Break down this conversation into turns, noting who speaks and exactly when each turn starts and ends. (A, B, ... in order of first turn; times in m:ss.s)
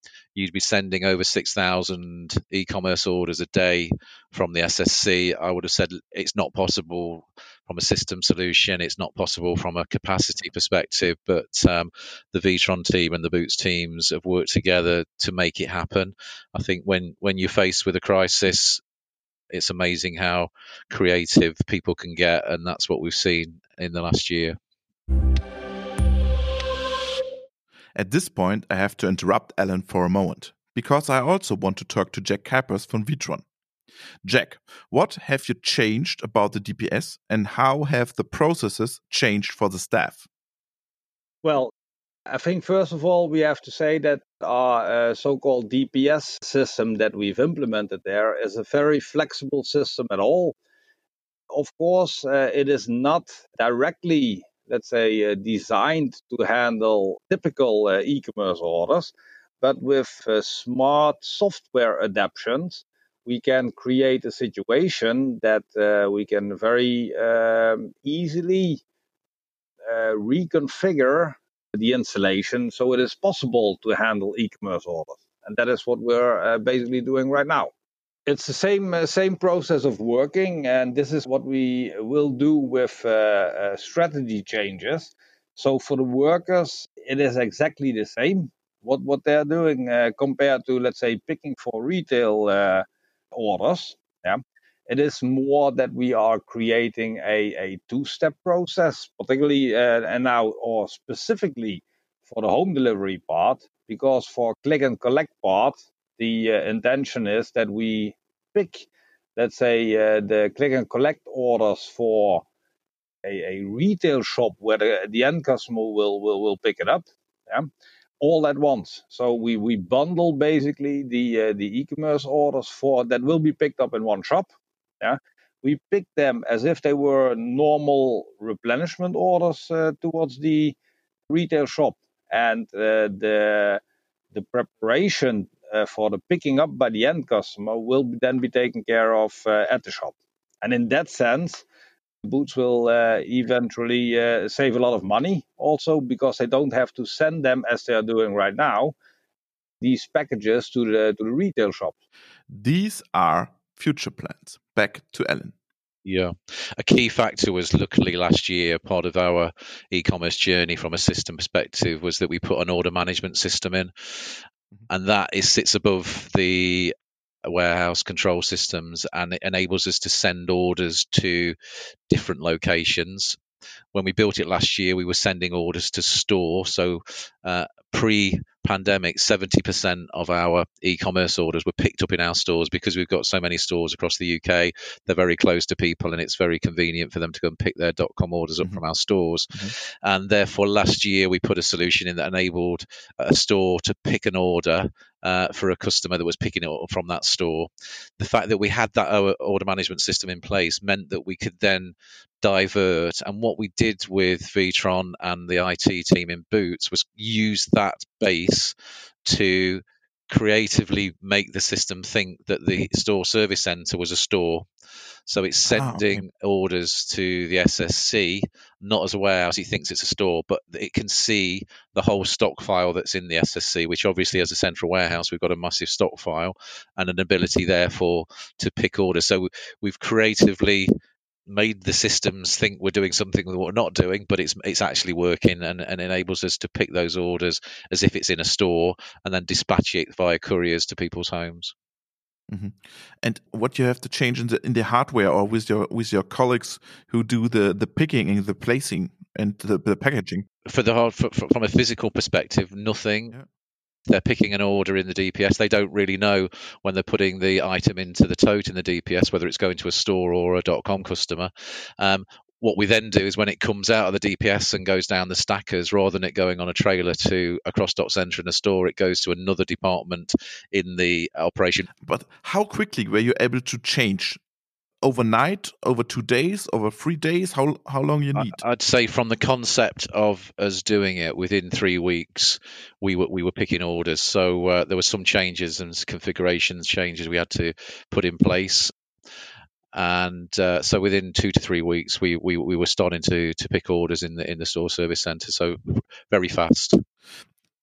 0:00.4-0:18.8 A
0:19.5-0:24.6 A
0:28.0-0:33.4 B
0:34.2-0:40.3 B
0:41.4-0:41.7 C
0:42.3-0:50.6 C
0:51.5-1:08.8 C
1:09.9-1:17.7 C
1:18.3-1:52.5 C
1:53.2-1:57.7 C
1:58.2-2:04.5 C
2:05.0-2:10.8 C
2:11.3-2:13.8 C
2:14.3-2:21.7 C
2:22.2-2:29.0 C
2:29.8-2:32.0 C
2:32.5-2:35.6 B
2:36.0-2:46.9 A
2:47.5-2:51.6 A
2:52.1-2:53.4 A
2:53.9-3:28.7 A
3:29.3-3:34.7 A
3:35.3-3:50.9 A
3:35.7-3:36.2 B
3:51.5-4:01.7 A
4:02.5-4:10.5 B
4:10.7-4:13.3 A
4:14.1-4:31.9 A
4:32.0-4:34.4 B
4:35.0-4:38.6 B
4:38.4-4:48.9 A
4:49.9-4:57.0 A